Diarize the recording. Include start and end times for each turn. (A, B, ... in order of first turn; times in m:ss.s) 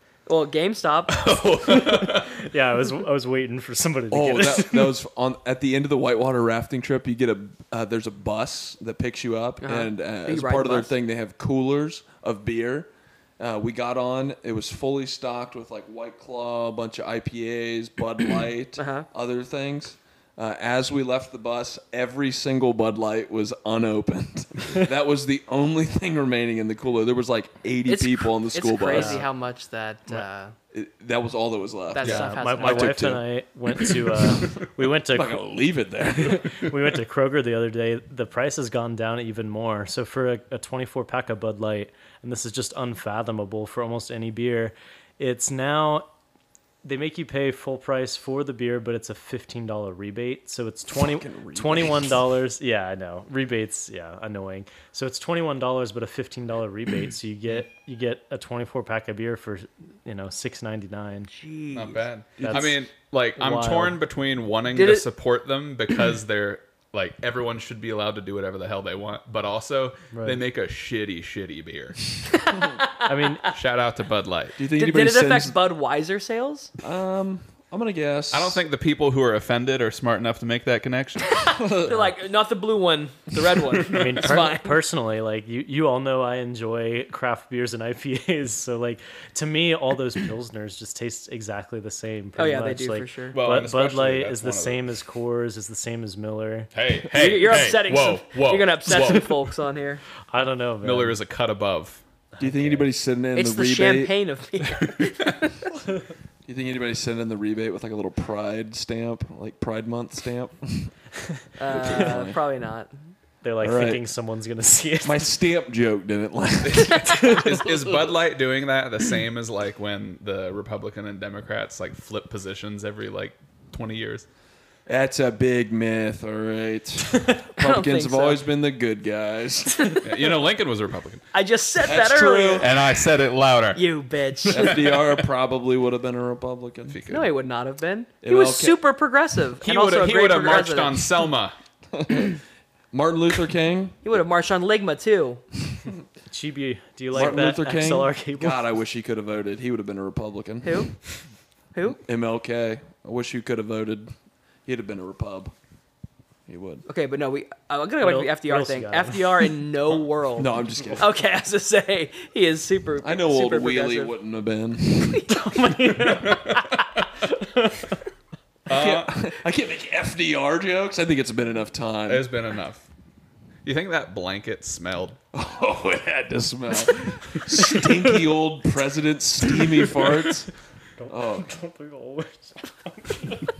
0:00.2-0:01.5 A
0:01.1-0:02.4 B
0:01.7-0:05.0 C
0:04.1-0:29.3 D
0:09.6-0:10.9 A
0:18.8-0:19.1 A
0:27.8-0:30.5 A
0:28.9-0:29.3 C
0:30.7-0:33.2 D
0:31.9-0:33.1 A
0:32.0-0:35.4 C
0:33.8-0:36.7 D
0:36.2-0:46.1 C
0:46.8-1:01.3 C
0:50.9-0:52.1 D
1:01.3-1:02.0 A
1:01.7-1:12.2 B
1:02.4-1:02.7 D
1:02.4-1:02.7 C
1:03.4-1:04.0 C
1:04.7-1:05.0 A
1:10.1-1:10.4 C
1:12.3-1:13.5 A
1:13.0-1:13.5 C
1:13.5-1:14.6 B
1:14.6-1:15.6 D
1:14.7-1:16.7 A
1:16.8-1:18.6 D
1:18.3-1:21.4 B
1:21.4-1:24.7 A
1:21.6-1:22.1 D
1:23.8-1:36.7 C
1:32.4-1:33.4 A
1:33.3-1:34.8 B
1:36.7-1:39.4 B
1:37.1-1:40.0 A
1:40.3-1:41.2 C
1:40.8-1:42.0 B
1:42.3-1:42.9 C
1:42.4-1:44.1 D
1:43.3-1:45.5 A
1:46.4-1:50.9 D
1:51.6-1:52.9 A
1:51.7-1:52.4 D
1:53.4-1:55.2 C
1:53.6-1:54.0 D
1:55.0-1:57.4 D
1:56.6-2:04.2 B
2:04.9-2:10.0 D
2:07.6-2:08.4 A
2:09.8-2:10.1 A
2:10.0-2:11.2 B
2:11.3-2:12.7 A
2:11.8-2:12.8 D
2:12.6-2:13.8 B
2:13.7-2:14.9 A
2:14.4-2:15.1 B
2:14.5-2:17.0 D
2:16.9-2:17.3 B
2:17.1-2:21.1 A
2:18.2-2:18.8 D
2:19.6-2:21.5 B
2:21.9-2:22.4 D
2:22.9-2:24.0 D
2:24.0-2:25.4 A
2:26.3-2:28.6 C
2:27.1-2:30.9 D
2:30.6-2:30.9 A
2:31.7-2:32.0 A
2:31.9-2:34.1 D
2:34.6-2:35.5 D
2:36.5-2:36.8 D
2:36.9-2:44.1 A
2:38.0-2:39.6 C
2:40.4-2:41.1 D
2:43.0-2:45.3 D
2:45.2-2:48.0 C
2:46.0-2:47.0 B
2:48.7-2:49.1 B
2:48.7-2:52.2 D
2:52.1-2:52.9 B
2:53.6-2:55.2 B
2:55.3-3:00.5 D
3:01.0-3:03.5 C
3:01.1-3:01.5 D